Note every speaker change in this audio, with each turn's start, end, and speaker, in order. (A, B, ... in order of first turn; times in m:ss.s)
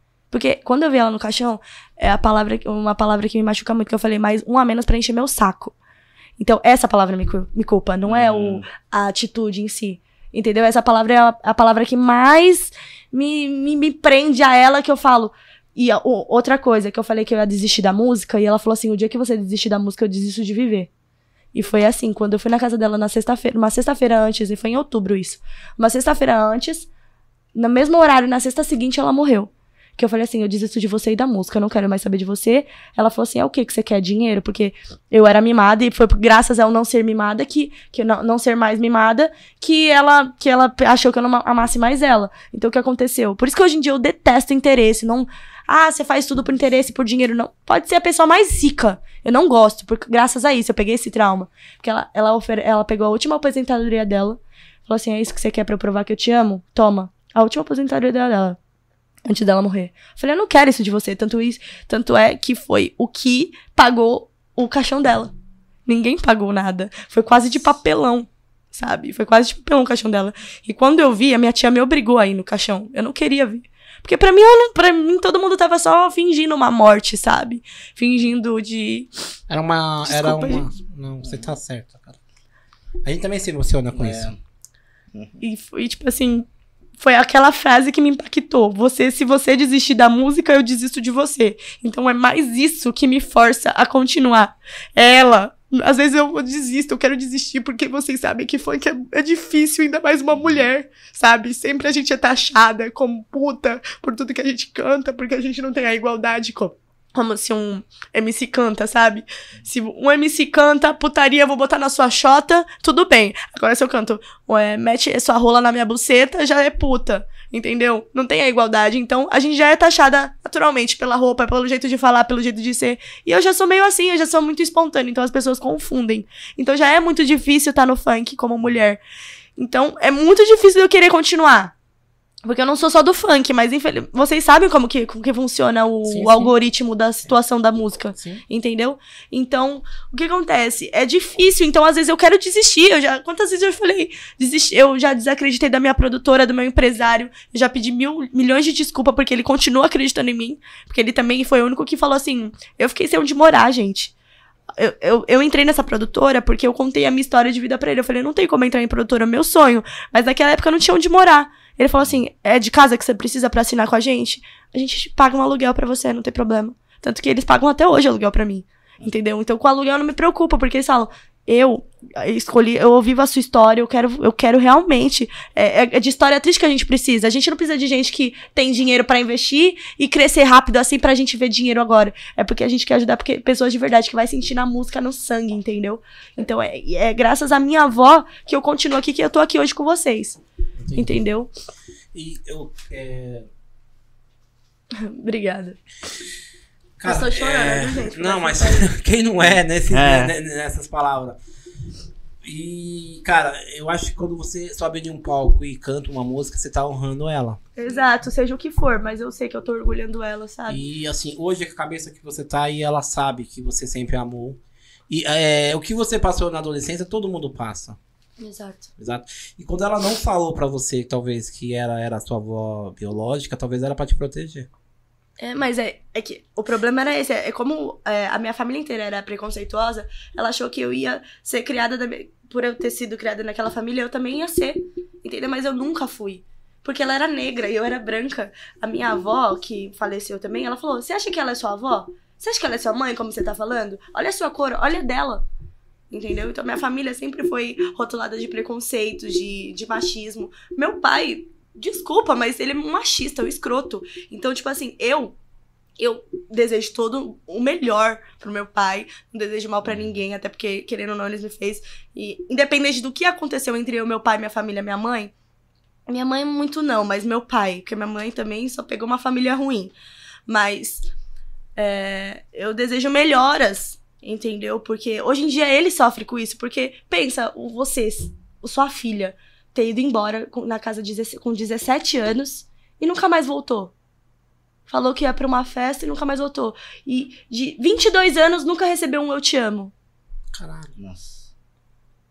0:00.3-0:05.7 A
0:06.4-0:20.9 A
0:08.1-0:08.6 B
0:21.5-0:26.9 A
0:27.5-0:58.6 A
0:59.2-1:05.3 A
1:05.8-1:19.1 A
1:19.5-1:22.2 C
1:20.0-1:20.7 A
1:23.0-1:24.3 C
1:23.9-1:24.4 B
1:25.1-1:25.4 B
1:25.4-1:26.5 A
1:27.0-2:09.0 A
2:09.6-2:11.7 A
2:12.4-2:34.1 A
2:16.0-2:16.5 C
2:18.2-2:18.4 C
2:34.8-3:10.4 A
3:10.8-3:11.2 C
3:10.9-3:11.5 A
3:12.1-3:13.5 C
3:14.9-3:15.8 A
3:17.0-3:21.4 C
3:17.0-3:18.9 A
3:19.9-3:20.3 B
3:22.4-3:27.6 C
3:27.8-3:30.8 A
3:30.7-3:38.0 C
3:38.4-3:38.9 A
3:39.0-3:44.7 C
3:45.4-4:05.4 A
4:06.1-4:15.4 A
4:16.0-4:25.3 A
4:26.1-4:29.9 A
4:30.5-4:31.1 A
4:31.8-4:43.9 A
4:44.9-4:49.9 A
4:50.5-4:50.9 C
4:51.0-4:51.5 B